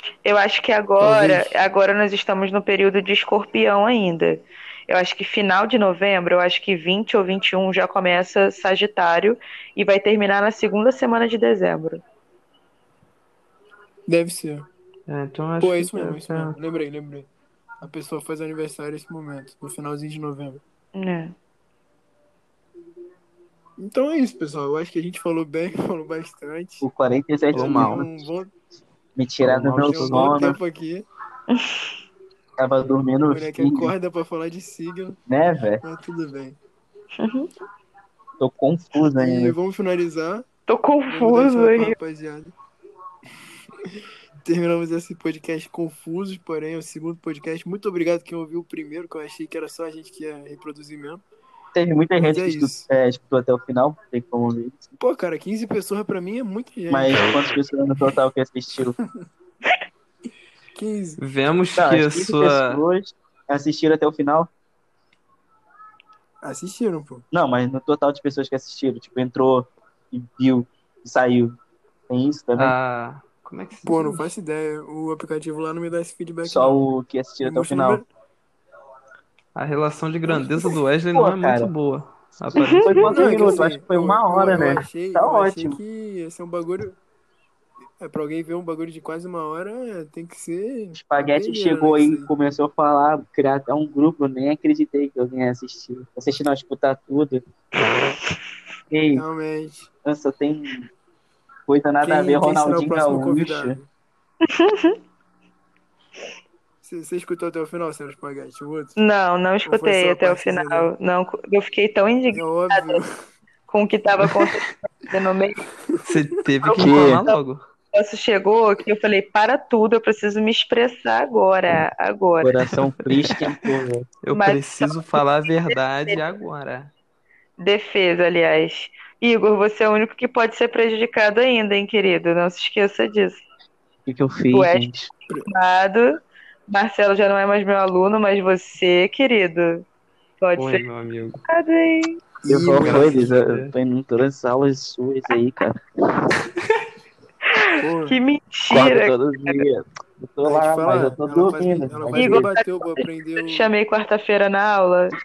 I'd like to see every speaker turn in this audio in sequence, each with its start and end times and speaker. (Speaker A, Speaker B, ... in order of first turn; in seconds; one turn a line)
Speaker A: 0.2-12.0
Speaker B: 1.0-1.5
Speaker B: 14.1-14.7
Speaker C: 15.1-16.6
Speaker B: 15.6-17.3
Speaker B: 17.8-20.6
Speaker A: 20.9-21.4
Speaker B: 23.8-26.9
Speaker D: 26.8-28.2
Speaker B: 27.5-28.5
Speaker C: 27.5-28.1
Speaker D: 29.2-30.6
Speaker C: 29.4-30.4
Speaker B: 29.6-31.1
Speaker A: 31.5-31.9
Speaker D: 32.6-33.9
Speaker B: 33.3-35.2
Speaker D: 35.3-35.8
Speaker B: 35.8-36.6
Speaker A: 37.2-37.5
Speaker D: 38.4-39.5
Speaker B: 39.2-40.5
Speaker A: 40.7-42.0
Speaker B: 41.1-42.5
Speaker B: 43.9-51.2
Speaker D: 51.7-55.0
Speaker B: 52.2-52.9
Speaker B: 55.0-57.5
Speaker D: 56.9-59.0
Speaker B: 60.7-61.2
Speaker C: 61.2-62.8
Speaker D: 61.8-64.5
Speaker B: 66.4-67.2
Speaker D: 67.3-72.7
Speaker C: 72.5-74.3
Speaker B: 73.8-76.8
Speaker D: 76.4-78.0
Speaker B: 77.4-78.1
Speaker C: 79.5-83.3
Speaker D: 81.1-81.7
Speaker A: 82.5-83.0
Speaker D: 82.8-85.8
Speaker B: 83.0-87.0
Speaker B: 88.0-92.3
Speaker D: 90.9-97.4
Speaker D: 98.9-99.2
Speaker B: 99.1-99.9
Speaker D: 100.0-100.9
Speaker D: 101.7-103.8
Speaker B: 102.0-103.9
Speaker A: 104.4-105.0
Speaker B: 106.8-109.0
Speaker A: 109.0-113.0
Speaker B: 109.6-110.9
Speaker B: 112.3-113.1
Speaker A: 113.7-115.6
Speaker B: 115.9-116.2
Speaker C: 116.0-117.6
Speaker A: 116.6-117.4
Speaker D: 116.8-117.2
Speaker A: 117.9-122.5
Speaker D: 122.4-124.1
Speaker C: 123.0-123.6
Speaker C: 124.2-126.9
Speaker A: 124.3-125.0
Speaker A: 125.7-126.2
Speaker A: 127.6-133.4
Speaker D: 134.1-135.1
Speaker A: 134.5-134.9
Speaker A: 135.4-139.9
Speaker A: 140.4-140.9
Speaker C: 140.6-141.4
Speaker A: 141.4-142.2
Speaker B: 142.4-143.3
Speaker D: 142.5-146.3
Speaker C: 142.8-143.7
Speaker A: 147.5-149.7
Speaker B: 147.8-148.2
Speaker D: 148.7-152.5
Speaker B: 150.4-153.7
Speaker A: 152.1-155.1